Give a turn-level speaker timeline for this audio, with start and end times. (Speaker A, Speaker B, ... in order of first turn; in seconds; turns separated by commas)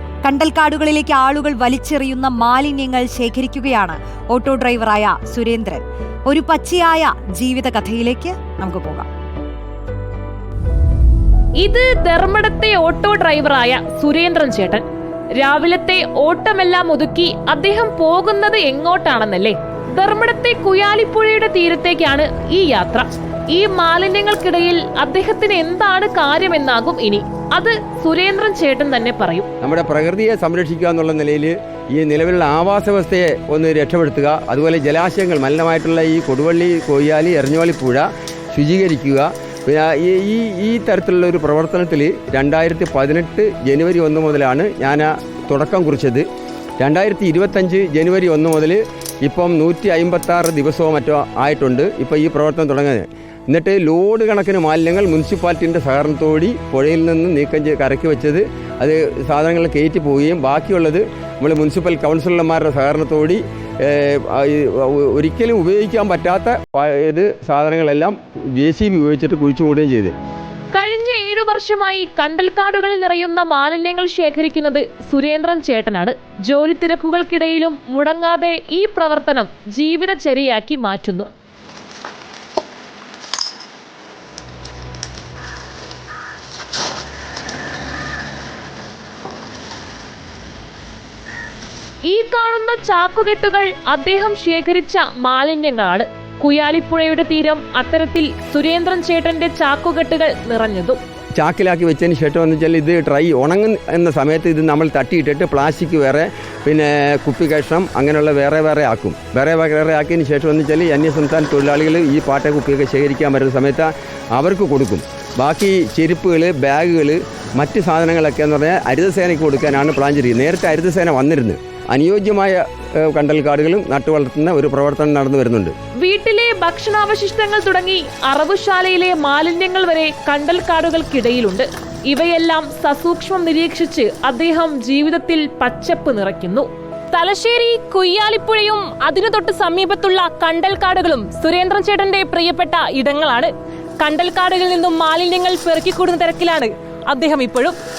Speaker A: 0.2-9.1, Speaker B: 11.6-14.8, Speaker B: 15.4-29.5, Speaker C: 29.6-46.2, Speaker C: 46.8-70.1, Speaker B: 70.7-81.3, Speaker B: 92.1-101.0, Speaker C: 101.4-125.7, Speaker B: 126.0-147.8